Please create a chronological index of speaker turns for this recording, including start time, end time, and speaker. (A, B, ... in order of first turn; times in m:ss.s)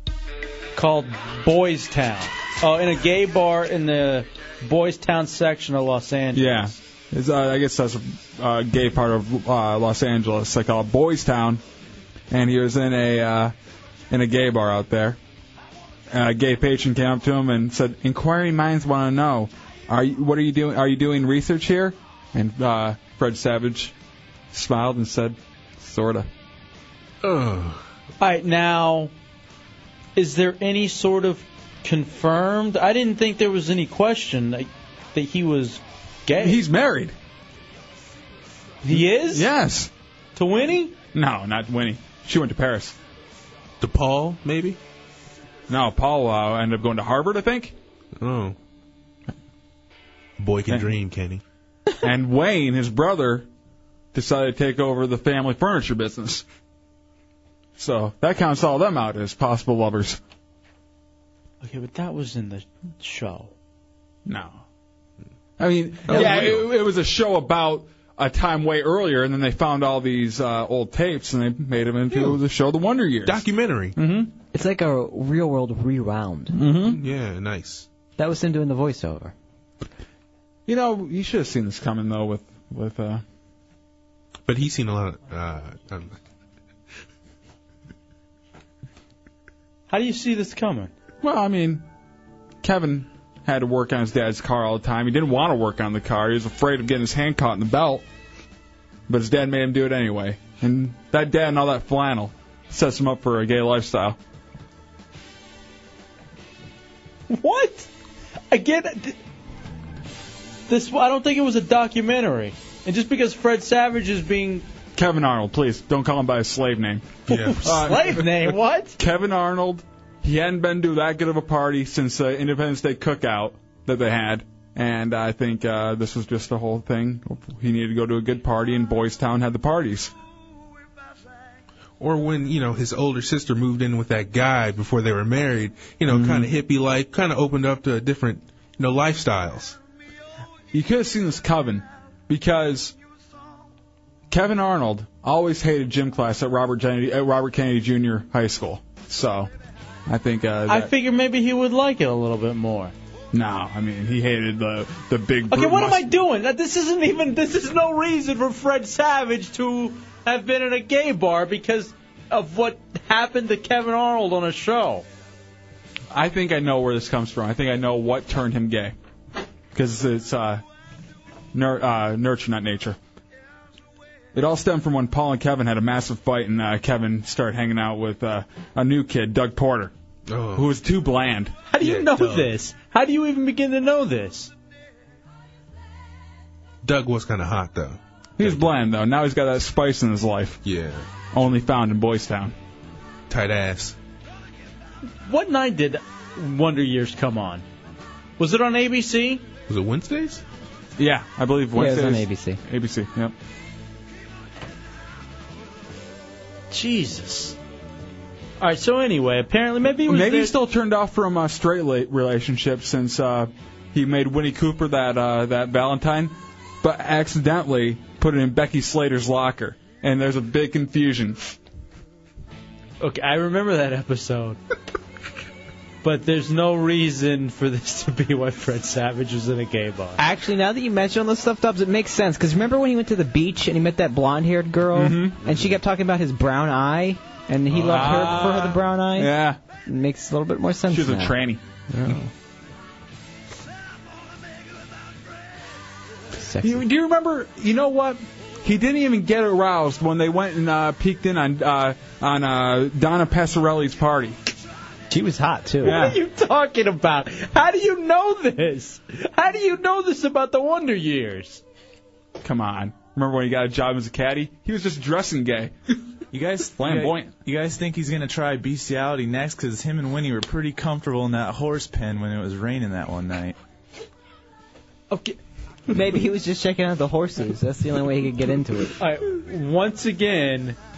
0:00.7-0:06.7 A
0:06.3-0:11.6 B
0:12.3-0:13.5 B
0:14.1-0:15.2 B
0:16.1-0:23.9 B
0:24.5-0:26.3 B
0:27.2-0:27.8 C
0:28.2-0:29.1 A
0:30.2-0:36.6 A
0:36.4-0:37.1 B
0:38.8-0:39.5 A
0:38.9-0:39.9 B
0:40.4-0:40.9 A
0:41.1-0:43.0 B
0:43.8-0:44.8 C
0:45.7-0:47.7 B
0:48.2-0:48.6 C
0:50.4-0:51.4 C
0:52.0-0:53.4 B
0:54.1-0:56.4 B
0:57.8-1:00.2 B
1:01.6-1:03.5 A
1:04.2-1:04.6 B
1:05.6-1:13.4 B
1:06.1-1:06.7 C
1:12.1-1:12.4 C
1:13.2-1:13.9 C
1:14.0-1:14.3 B
1:14.5-1:16.6 D
1:16.5-1:17.0 B
1:16.8-1:17.9 C
1:18.2-1:19.3 D
1:20.7-1:23.2 B
1:24.5-1:26.2 C
1:29.9-1:30.9 A
1:31.2-1:31.8 B
1:32.6-1:38.0 B
1:39.1-1:44.2 B
1:47.3-1:47.9 A
1:48.5-1:49.2 A
1:50.7-1:54.6 A
1:55.0-2:10.1 B
1:57.3-1:59.0 A
1:57.3-1:57.6 C
2:12.0-2:19.8 C
2:16.1-2:16.5 B
2:20.7-2:22.9 B
2:24.3-2:29.5 B
2:30.1-2:30.9 B
2:30.7-2:32.9 A
2:33.3-2:36.0 B
2:35.5-2:45.0 A
2:46.1-2:48.9 B
2:49.7-2:50.6 B
2:51.5-2:53.0 B
2:54.3-2:59.9 B
3:00.3-3:00.7 C
3:00.5-3:01.5 B
3:01.7-3:04.5 A
3:01.8-3:02.5 C
3:06.8-3:08.7 C
3:08.4-3:10.6 B
3:10.6-3:11.1 C
3:11.3-3:12.5 B
3:13.3-3:14.0 C
3:15.2-3:17.6 A
3:18.4-3:19.4 A
3:19.7-3:20.4 C
3:21.0-3:23.3 B
3:21.7-3:22.6 D
3:26.7-3:27.6 A
3:28.6-3:30.5 A
3:30.1-3:41.4 B
3:43.0-3:44.6 A
3:46.0-3:50.2 A
3:50.2-3:59.3 D
3:54.9-3:55.4 B
3:57.7-3:59.6 B
3:59.8-4:01.4 D
4:00.9-4:02.2 B
4:01.9-4:02.3 D
4:06.3-4:06.8 D
4:06.6-4:14.4 B
4:15.1-4:16.0 D
4:15.8-4:21.6 A
4:15.8-4:16.2 B
4:22.4-4:25.7 B
4:26.3-4:33.6 E
4:26.7-4:27.3 B
4:35.9-4:38.9 D
4:39.0-4:40.8 A